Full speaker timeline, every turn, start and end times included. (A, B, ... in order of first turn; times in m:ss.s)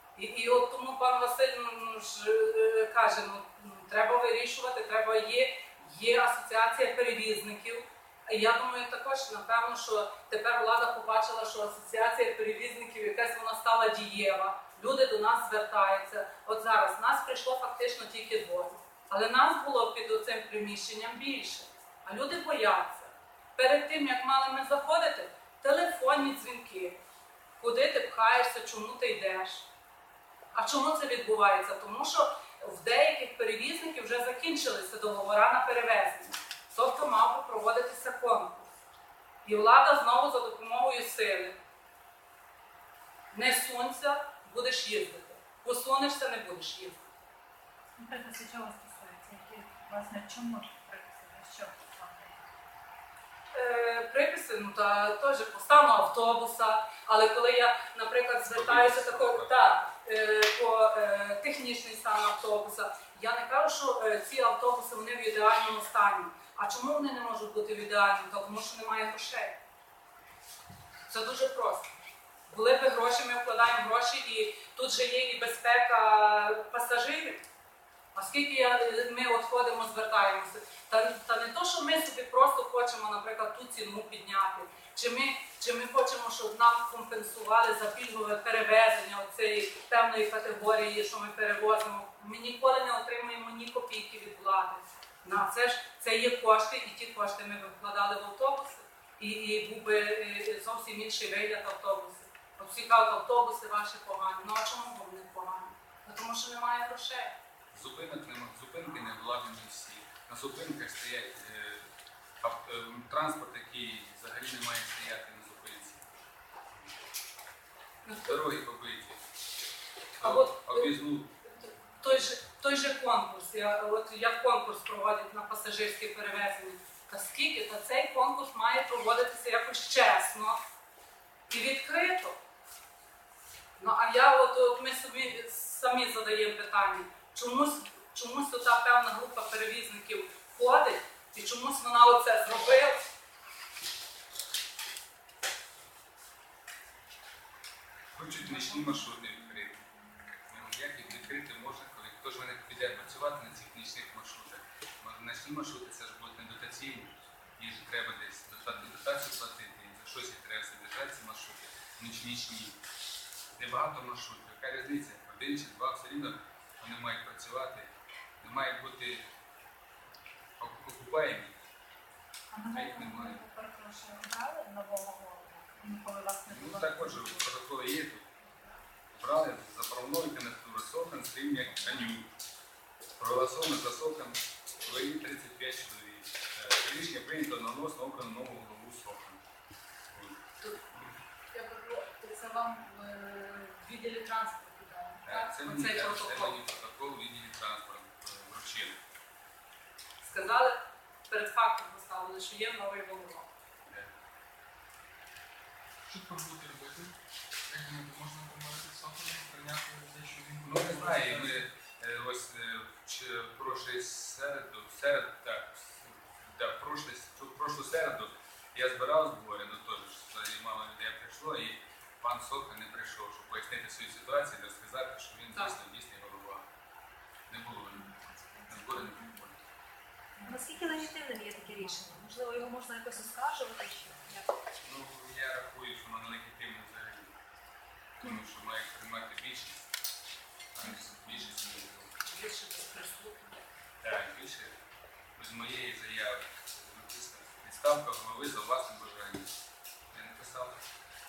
0:00.2-0:27.0 A
0:27.6-0:29.7 A
0:30.5-0:38.6 A
0:39.4-0:41.6 A
0:43.3-0:47.1 A
0:48.0-0:52.5 B
0:53.5-1:09.6 A
0:58.5-0:59.5 C
1:11.1-1:11.9 A
1:12.5-1:17.4 A
1:18.2-1:47.3 A
1:47.7-1:51.9 C
1:52.4-1:56.2 C
1:58.0-1:58.4 A
1:58.3-1:59.2 C
2:00.2-2:01.3 C
2:00.2-2:00.9 A
2:01.6-2:10.6 A
2:11.5-2:12.4 A
2:13.8-2:23.0 A
2:28.2-2:29.8 C
2:28.5-2:28.8 A
2:30.4-2:42.8 C
2:43.6-2:49.2 C
2:50.6-2:51.5 C
2:52.5-2:57.5 B
2:52.7-2:53.4 C
2:56.5-2:58.2 C
2:59.1-3:02.3 C
3:03.2-3:09.4 C
3:10.1-3:10.4 C
3:11.5-3:16.6 A
3:15.2-3:19.0 C
3:20.2-3:20.8 A
3:21.3-3:23.5 A
3:23.9-3:24.1 C
3:26.1-3:31.7 D
3:30.6-3:46.7 C
3:47.5-3:48.1 C
3:48.0-3:49.4 B
3:48.7-3:49.6 C
3:50.4-3:54.6 B
3:50.5-3:52.3 A
3:54.8-3:57.3 C
3:58.2-3:59.9 C
4:00.8-4:02.1 C
4:00.8-4:03.6 A
4:04.0-4:04.8 C
4:05.4-4:09.6 C
4:10.1-4:10.8 C